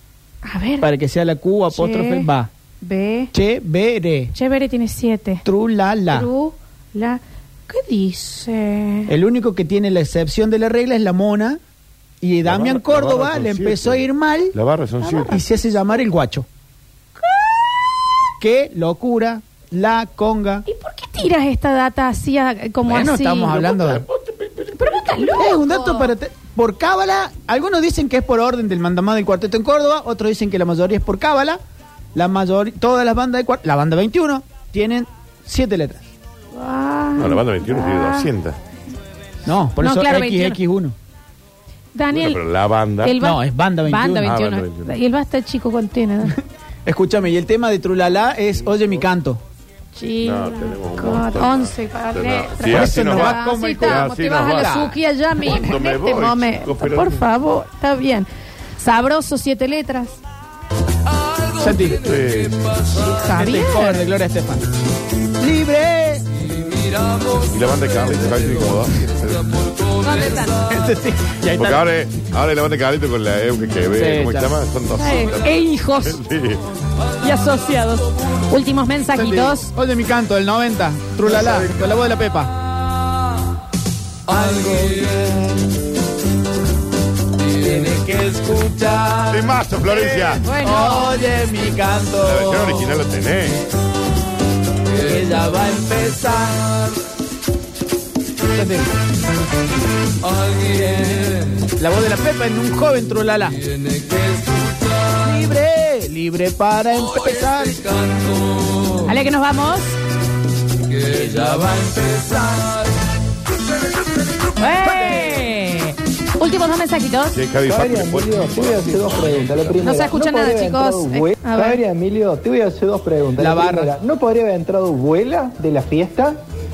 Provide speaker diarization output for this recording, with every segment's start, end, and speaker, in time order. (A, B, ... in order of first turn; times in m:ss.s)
0:00.4-0:00.9 A
0:00.8-0:02.5 B
0:01.7-0:02.3 A
0:02.8-0:03.3 A
0:03.3-0:04.3 B
0:04.3-0:05.4 A
0:05.4-0:06.3 B
0:06.1-0:09.1 A
0:09.1-0:11.6 B
0:12.2-0:14.5 B
0:12.4-0:15.3 C
0:15.0-0:15.4 A
0:15.3-0:16.4 B
0:18.4-0:20.6 B
0:20.6-0:23.7 A
0:22.9-0:24.0 B
0:24.8-0:26.1 A
0:25.4-0:31.6 B
0:32.1-0:36.0 B
0:36.5-0:38.3 A
0:37.2-0:38.6 C
0:39.4-0:40.9 B
0:39.8-0:40.6 A
0:41.9-0:42.4 A
0:42.1-0:43.2 C
0:43.0-0:46.3 A
0:43.2-0:44.3 B
0:44.2-0:44.9 C
0:46.3-0:49.4 B
0:49.9-1:00.2 A
0:50.2-0:54.8 C
0:52.6-0:54.9 B
0:55.4-0:57.2 C
1:01.6-1:02.0 B
1:02.0-1:02.6 C
1:02.9-1:04.0 A
1:03.3-1:04.6 B
1:05.4-1:06.2 B
1:07.5-1:09.4 C
1:10.0-1:10.6 A
1:10.7-1:11.8 B
1:11.5-1:16.6 C
1:13.9-1:14.6 B
1:15.0-1:16.2 A
1:17.2-1:19.7 A
1:19.1-1:22.5 B
1:24.3-1:25.5 B
1:27.5-1:32.9 B
1:29.2-1:30.5 C
1:30.4-1:31.1 A
1:32.2-1:33.6 C
1:34.9-1:36.8 B
1:38.5-1:39.0 B
1:40.7-1:43.6 B
1:45.1-1:48.0 B
1:49.0-1:50.0 A
1:54.6-1:57.4 A
1:57.3-1:59.7 C
1:57.6-2:06.4 D
1:59.8-2:01.8 A
2:03.4-2:03.9 B